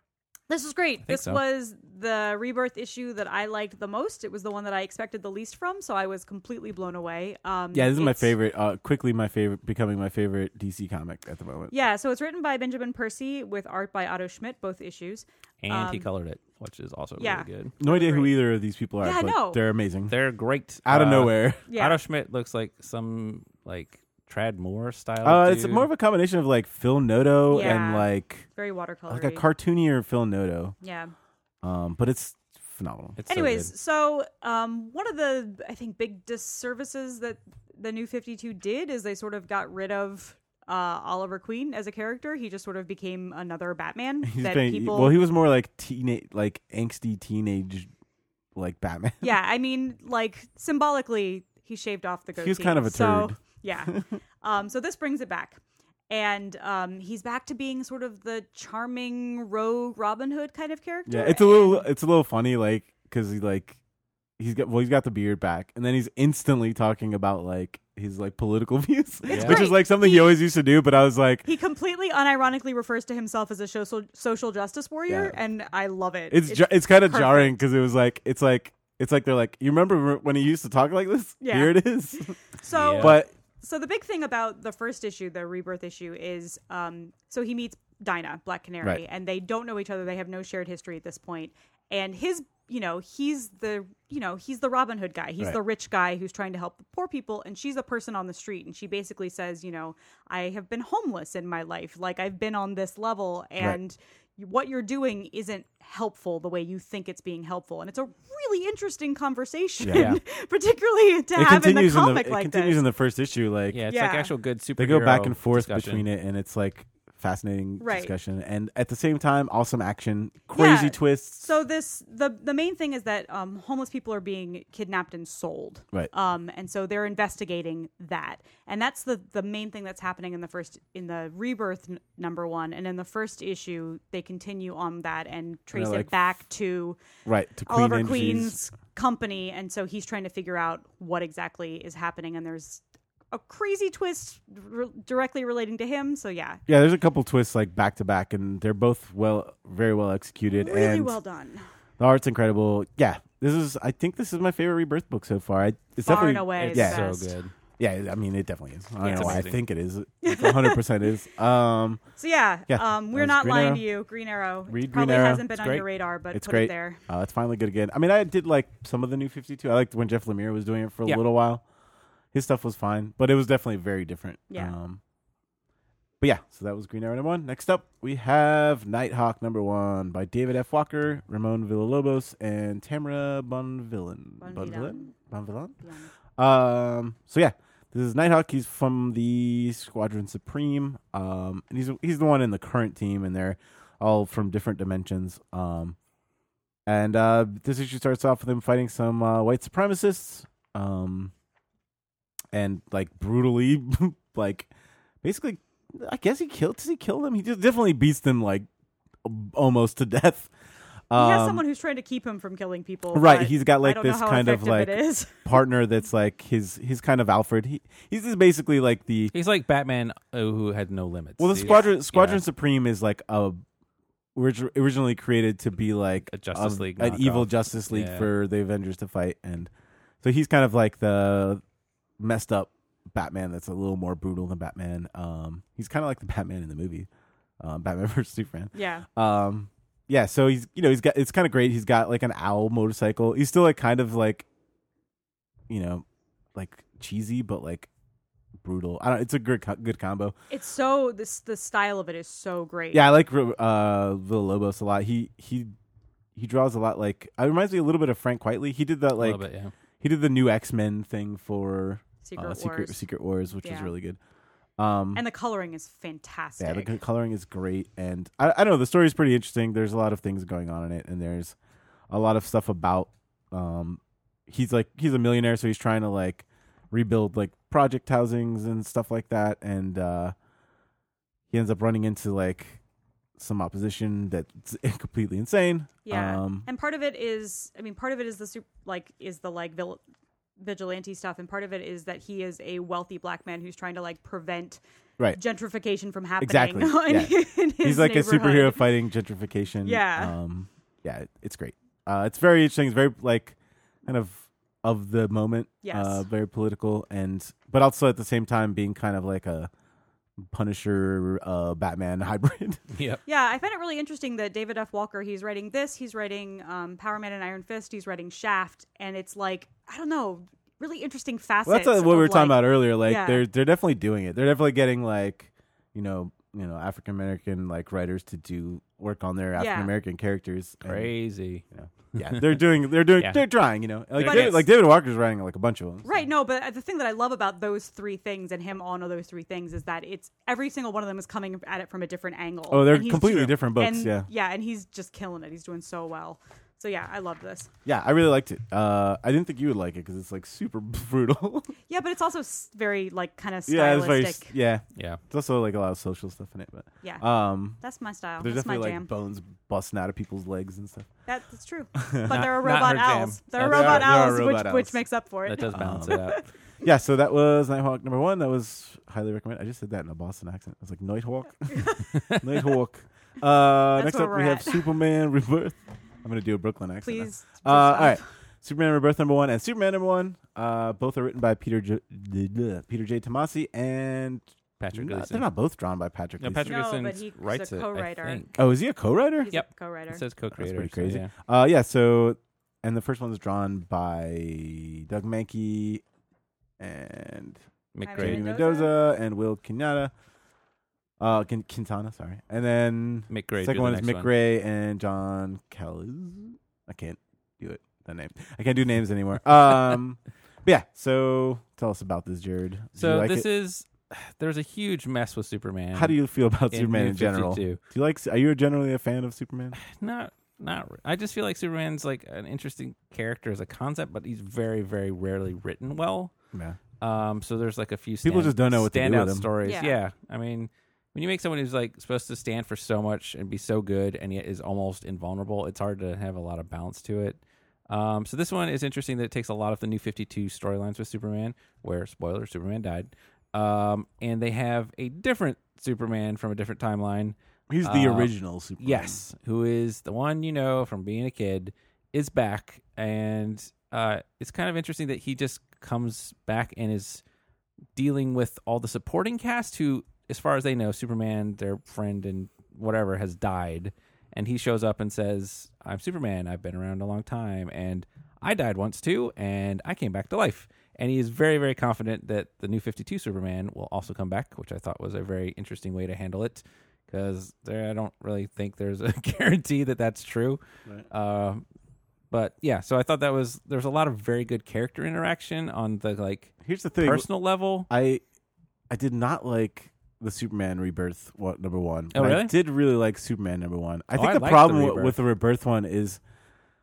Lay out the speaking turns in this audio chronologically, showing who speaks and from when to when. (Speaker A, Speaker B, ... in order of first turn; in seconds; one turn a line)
Speaker A: 0.5-8.3
Speaker B: 1.1-1.4
Speaker C: 7.7-11.7
Speaker A: 11.7-16.1
Speaker B: 15.6-17.7
Speaker A: 17.2-18.3
Speaker C: 17.8-20.1
Speaker A: 19.0-19.6
Speaker B: 20.1-25.9
Speaker C: 20.9-21.6
Speaker A: 21.7-22.0
Speaker C: 25.2-28.4
Speaker A: 27.5-29.4
Speaker C: 29.1-30.7
Speaker A: 30.8-31.1
Speaker C: 31.6-33.3
Speaker B: 33.2-33.7
Speaker A: 33.3-45.2
Speaker C: 44.2-47.9
Speaker C: 48.5-49.3
Speaker A: 49.2-61.9
Speaker C: 52.4-54.0
Speaker C: 61.0-63.8
Speaker C: 64.4-71.5
Speaker A: 69.3-70.4
Speaker B: 69.3-69.6
Speaker A: 71.4-77.6
Speaker C: 75.1-75.4
Speaker C: 76.3-82.3
Speaker A: 81.4-81.8
Speaker A: 82.6-112.8
Speaker B: 82.7-83.2
Speaker C: 83.0-83.3
Speaker C: 109.8-110.1
Speaker B: 109.9-110.2
Speaker C: 111.3-113.8
Speaker B: 113.7-116.0
Speaker A: 113.9-114.3
Speaker C: 114.8-121.5
Speaker A: 117.8-118.1
Speaker A: 120.5-137.0
Speaker C: 135.7-136.1
Speaker C: 137.2-138.6
Speaker A: 137.7-146.6
Speaker C: 146.7-151.2
Speaker A: 150.5-151.6
Speaker C: 152.0-157.0
Speaker A: 156.0-157.3
Speaker B: 156.6-157.5
Speaker C: 157.8-162.0
Speaker A: 159.0-159.4
Speaker B: 159.1-159.6
Speaker A: 160.2-160.9
Speaker A: 162.2-167.0
Speaker C: 162.7-163.8
Speaker C: 164.7-165.5
Speaker B: 165.5-165.8
Speaker C: 166.3-171.6
Speaker C: 172.3-175.0
Speaker C: 176.2-185.8
Speaker A: 184.4-185.1
Speaker A: 185.8-186.1
Speaker C: 186.4-195.9
Speaker C: 196.8-201.3
Speaker C: 202.5-204.7
Speaker C: 205.2-208.7
Speaker C: 209.2-210.5
Speaker C: 211.1-211.6
Speaker A: 211.1-215.4
Speaker C: 213.1-219.3
Speaker B: 219.3-222.4
Speaker C: 221.4-223.6
Speaker A: 221.6-221.9
Speaker C: 224.3-229.7
Speaker B: 226.3-228.3
Speaker C: 230.2-231.6
Speaker C: 232.2-237.1
Speaker C: 237.6-244.4
Speaker A: 238.7-239.1
Speaker C: 245.7-247.9
Speaker C: 248.6-250.3
Speaker A: 250.5-253.1
Speaker C: 252.9-255.7
Speaker C: 256.3-259.4
Speaker B: 259.2-259.7
Speaker C: 260.0-264.2
Speaker A: 262.2-263.0
Speaker A: 263.6-263.9
Speaker C: 264.8-265.2
Speaker A: 265.1-267.0
Speaker C: 266.6-271.5
Speaker C: 272.1-280.3
Speaker C: 281.5-282.8
Speaker C: 283.4-286.7
Speaker A: 286.0-290.0
Speaker A: 290.6-294.8
Speaker A: 295.3-298.9
Speaker C: 296.4-309.7
Speaker A: 299.8-300.4
Speaker A: 305.8-306.2
Speaker C: 310.4-312.8
Speaker B: 312.9-313.2
Speaker A: 313.2-323.4
Speaker C: 321.6-331.1
Speaker A: 329.6-329.9
Speaker B: 330.8-331.6
Speaker C: 331.7-336.1
Speaker B: 332.1-332.6
Speaker B: 333.2-333.4
Speaker B: 334.1-334.6
Speaker A: 334.2-334.6
Speaker A: 336.0-347.7
Speaker C: 342.7-344.3
Speaker C: 347.8-351.7
Speaker A: 351.9-354.5
Speaker C: 353.7-357.8
Speaker B: 354.9-355.2
Speaker A: 357.8-359.1
Speaker C: 358.4-361.1
Speaker A: 361.2-366.4
Speaker C: 361.9-362.5
Speaker B: 362.3-364.1
Speaker C: 363.6-365.0
Speaker B: 365.5-366.4
Speaker C: 365.7-366.2
Speaker C: 366.8-386.7
Speaker A: 371.7-372.1
Speaker B: 372.1-372.6
Speaker A: 373.9-374.9
Speaker A: 377.0-378.2
Speaker B: 384.8-385.4
Speaker B: 386.4-388.6
Speaker A: 386.6-388.5
Speaker C: 388.6-389.5
Speaker A: 389.4-390.2
Speaker B: 389.5-391.3
Speaker C: 390.5-396.0
Speaker C: 396.8-397.6
Speaker B: 397.9-398.4
Speaker A: 398.0-398.9
Speaker C: 398.2-400.1
Speaker C: 401.2-413.4
Speaker B: 403.3-404.3
Speaker B: 413.0-416.1
Speaker C: 415.9-419.8
Speaker B: 416.7-417.8
Speaker B: 419.8-426.3
Speaker C: 426.5-426.8
Speaker B: 427.0-457.2
Speaker C: 428.2-429.5
Speaker A: 429.6-430.0
Speaker C: 447.7-449.2
Speaker B: 457.9-481.6
Speaker B: 482.3-487.9
Speaker C: 486.6-487.2
Speaker C: 487.9-488.2
Speaker C: 488.9-496.2
Speaker B: 492.1-492.5
Speaker B: 494.1-495.2